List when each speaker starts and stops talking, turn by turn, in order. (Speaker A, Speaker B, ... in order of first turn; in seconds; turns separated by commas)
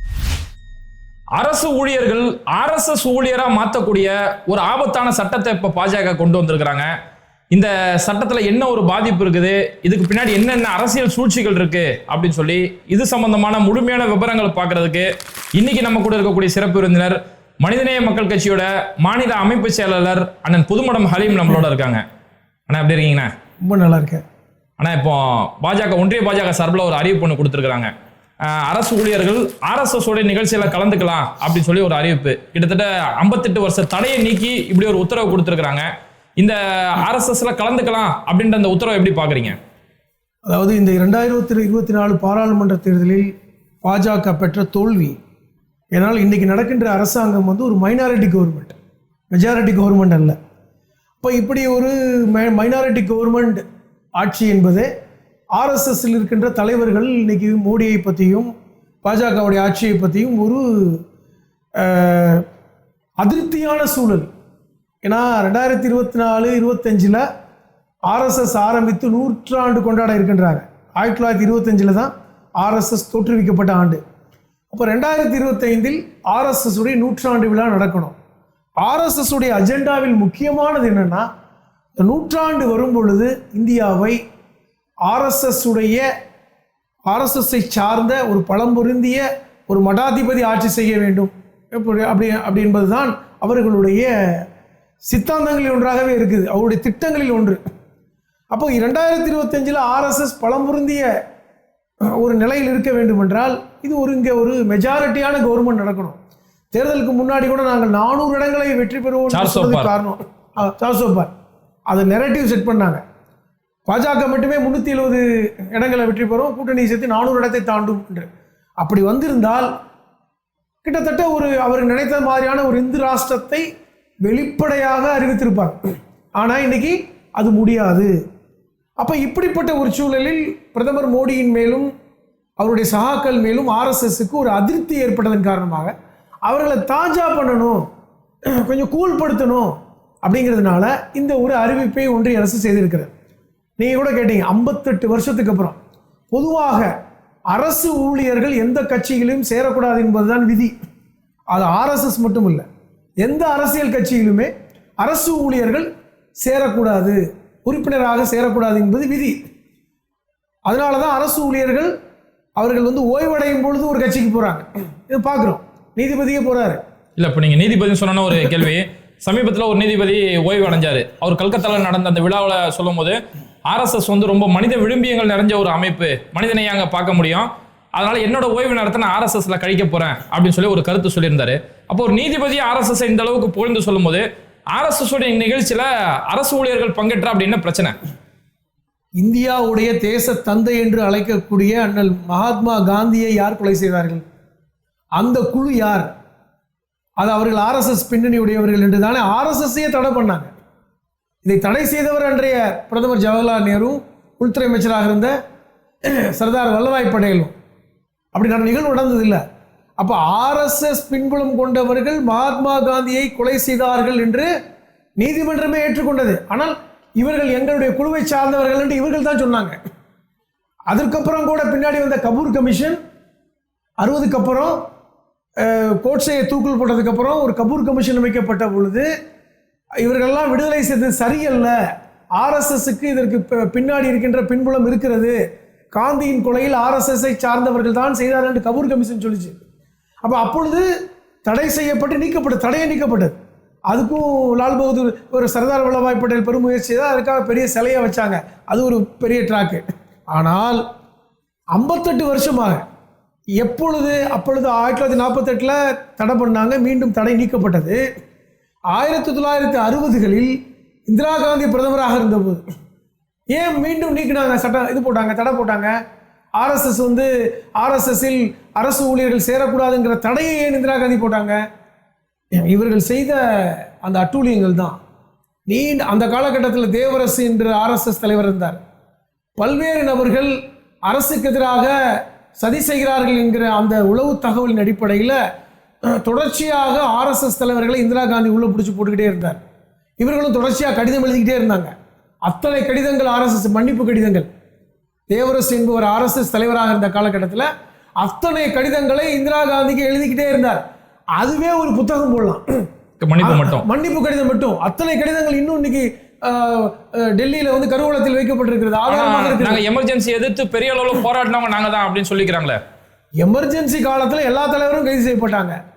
Speaker A: 1.4-6.9, Speaker A: 7.5-22.0, Speaker A: 22.7-23.3, Speaker B: 23.6-24.2, Speaker A: 24.8-27.9, Speaker A: 28.5-35.8, Speaker A: 36.4-39.6, Speaker B: 40.5-43.3, Speaker B: 43.8-45.2, Speaker B: 45.9-48.7, Speaker B: 49.3-50.3, Speaker B: 51.2-53.6, Speaker B: 54.2-54.9, Speaker B: 55.5-58.5, Speaker B: 59.0-61.0, Speaker B: 61.8-62.4, Speaker B: 63.2-64.3, Speaker B: 65.0-67.2, Speaker B: 68.1-74.0, Speaker B: 74.7-78.1, Speaker B: 78.8-81.2, Speaker B: 82.0-84.2, Speaker B: 85.1-86.0, Speaker B: 87.1-94.1, Speaker B: 95.1-97.6, Speaker B: 98.5-101.1, Speaker B: 102.2-106.2, Speaker B: 106.7-111.3, Speaker A: 109.3-109.9, Speaker B: 111.9-113.0, Speaker B: 113.9-118.3, Speaker B: 118.8-119.7, Speaker B: 120.8-123.7, Speaker B: 124.2-125.8, Speaker B: 126.4-128.1, Speaker B: 129.0-131.9, Speaker B: 132.6-135.9, Speaker B: 136.5-137.8, Speaker B: 138.6-139.7, Speaker B: 140.2-143.1, Speaker B: 143.8-145.8, Speaker B: 146.3-146.9, Speaker B: 147.5-150.7, Speaker B: 151.5-152.7, Speaker B: 153.2-155.9, Speaker B: 156.4-159.3, Speaker B: 160.7-161.9, Speaker B: 162.6-166.8, Speaker A: 167.2-173.2, Speaker A: 173.7-184.2, Speaker A: 184.7-187.9, Speaker B: 189.2-194.2, Speaker B: 195.2-196.1, Speaker B: 197.2-200.5, Speaker B: 201.4-205.3, Speaker B: 206.3-207.5, Speaker B: 208.3-209.4, Speaker B: 210.0-214.5, Speaker B: 215.2-219.8, Speaker B: 220.9-223.0, Speaker B: 224.0-224.8, Speaker B: 225.6-229.1, Speaker B: 230.0-231.7, Speaker B: 232.4-235.4, Speaker B: 235.9-239.6, Speaker B: 240.2-240.9, Speaker B: 241.4-243.4, Speaker B: 243.9-250.8, Speaker B: 251.7-252.8, Speaker B: 253.6-258.0, Speaker B: 258.9-260.5, Speaker B: 261.1-262.6, Speaker B: 263.5-265.9, Speaker B: 266.6-271.6, Speaker B: 272.6-275.0, Speaker B: 275.7-278.8, Speaker B: 279.6-280.5, Speaker B: 281.1-281.9, Speaker B: 282.6-285.4, Speaker B: 286.1-289.6, Speaker B: 290.2-291.9, Speaker B: 292.5-294.5, Speaker B: 295.3-297.7, Speaker B: 298.2-300.8, Speaker B: 301.4-302.6, Speaker A: 303.2-303.9, Speaker B: 303.4-309.8, Speaker A: 309.1-312.8, Speaker B: 313.4-315.8